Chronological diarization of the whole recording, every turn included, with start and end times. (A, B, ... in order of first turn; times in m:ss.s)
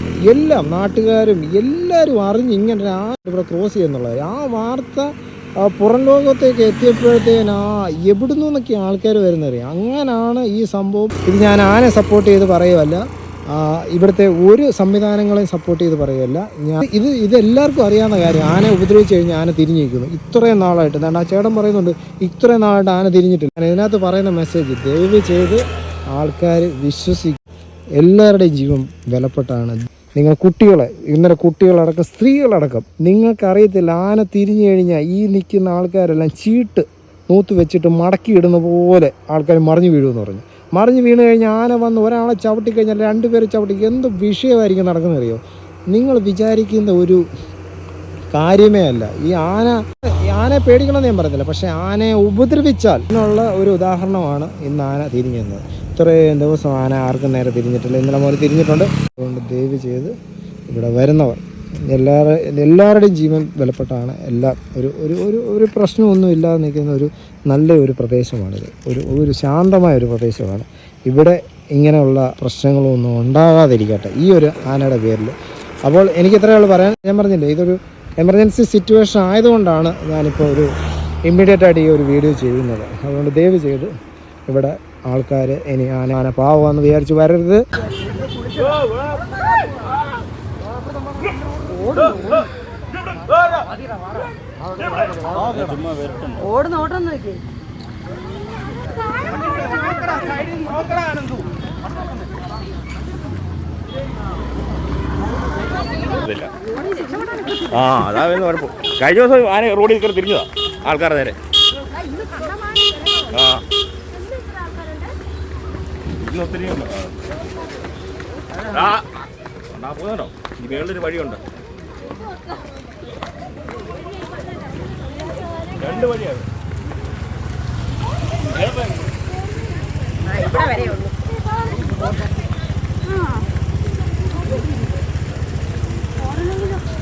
0:00.2-0:27.4 A
0:28.0-0:45.4 A
0:45.9-0:47.2 A
0:48.3-1:00.1 A
1:00.7-1:20.7 A
1:21.2-1:23.9 A
1:24.5-1:27.6 A
1:31.7-1:32.3 B
1:35.3-1:36.4 C
1:36.5-1:37.4 B
1:46.0-1:46.5 C
1:47.6-1:51.4 C
1:52.7-1:53.1 B
1:53.2-1:53.6 C
1:54.3-1:55.0 B
1:56.2-1:57.2 C
1:58.6-1:59.2 C
1:59.7-2:01.4 C
2:05.7-2:06.5 C
2:08.5-2:09.1 C